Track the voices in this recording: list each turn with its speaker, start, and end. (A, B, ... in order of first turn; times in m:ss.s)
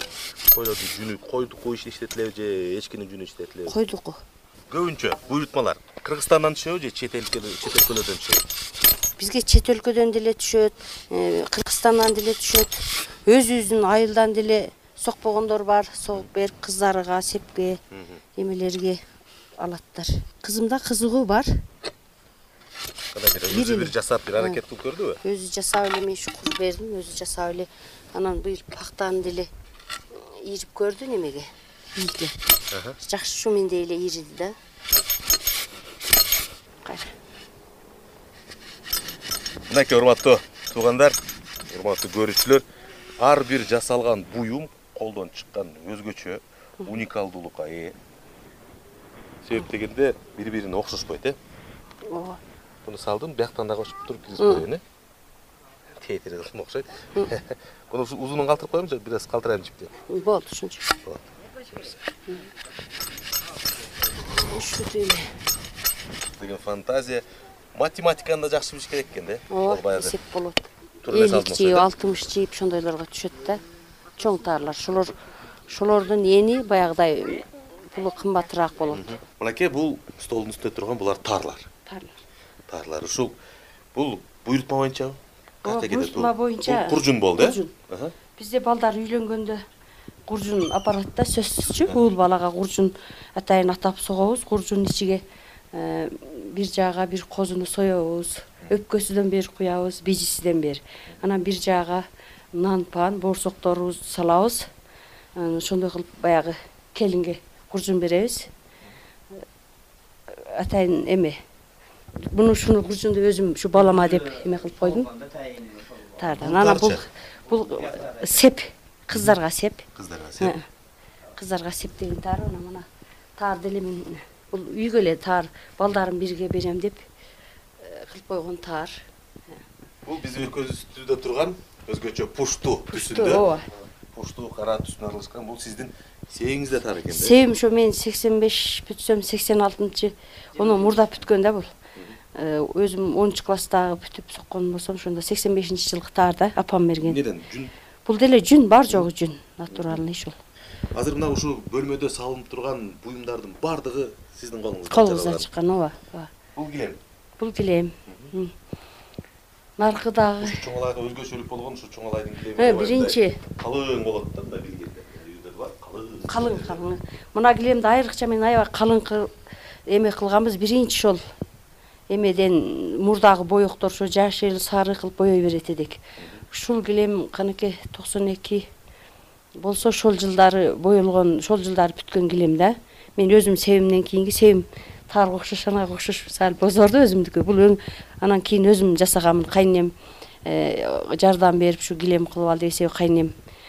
0:00.5-0:03.8 A
0:03.7-0:04.2 B
0:04.7-0:08.5 A
0:09.2-0:17.8 B
0:17.9-0:18.2 A
0:18.4-0:19.0 B
0:19.6-0:21.5 B
0:23.1-0:25.2 A
0:23.5-0:24.6 B
0:25.2-0:29.5 B
0:30.1-0:32.4 B
0:32.7-0:33.0 A
0:33.0-0:34.6 B
0:36.8-0:37.1 B
0:39.7-0:41.2 A
0:41.7-0:42.6 A
0:43.2-0:48.0 A
0:49.4-0:51.4 A
0:52.1-0:52.4 B
0:52.8-0:54.8 A
0:54.4-0:54.7 B
0:56.0-0:59.9 A
1:00.1-1:00.9 B
1:01.0-1:02.0 A
1:04.4-1:05.2 B
1:06.4-1:07.2 A
1:07.8-1:10.2 A
1:09.5-1:13.6 B
1:11.0-1:11.9 A
1:14.2-1:15.2 B
1:15.7-1:19.1 B
1:18.9-1:21.7 A
1:21.9-1:22.2 B
1:22.7-1:23.4 A
1:24.0-1:28.2 A
1:25.6-1:27.7 B
1:28.4-1:29.6 B
1:30.3-1:44.6 B
1:45.4-1:48.5 B
1:50.3-1:51.4 B
1:52.3-1:59.8 B
1:56.4-1:57.0 A
2:00.0-2:00.6 A
2:01.4-2:02.9 B
2:03.4-2:07.1 B
2:07.8-2:09.0 B
2:10.0-2:13.5 A
2:12.9-2:13.7 B
2:14.1-2:17.4 A
2:17.1-2:21.7 B
2:22.4-2:27.2 B
2:27.0-2:27.7 A
2:28.0-2:30.4 B
2:30.9-2:35.5 A
2:34.9-2:36.3 B
2:36.6-2:37.0 A
2:37.4-2:38.5 B
2:39.8-2:40.6 B
2:40.4-2:46.8 A
2:42.6-2:43.4 B
2:46.3-2:49.3 B
2:49.9-2:51.2 B
2:52.1-2:56.0 B
2:56.5-2:58.7 B
2:59.6-3:13.3 B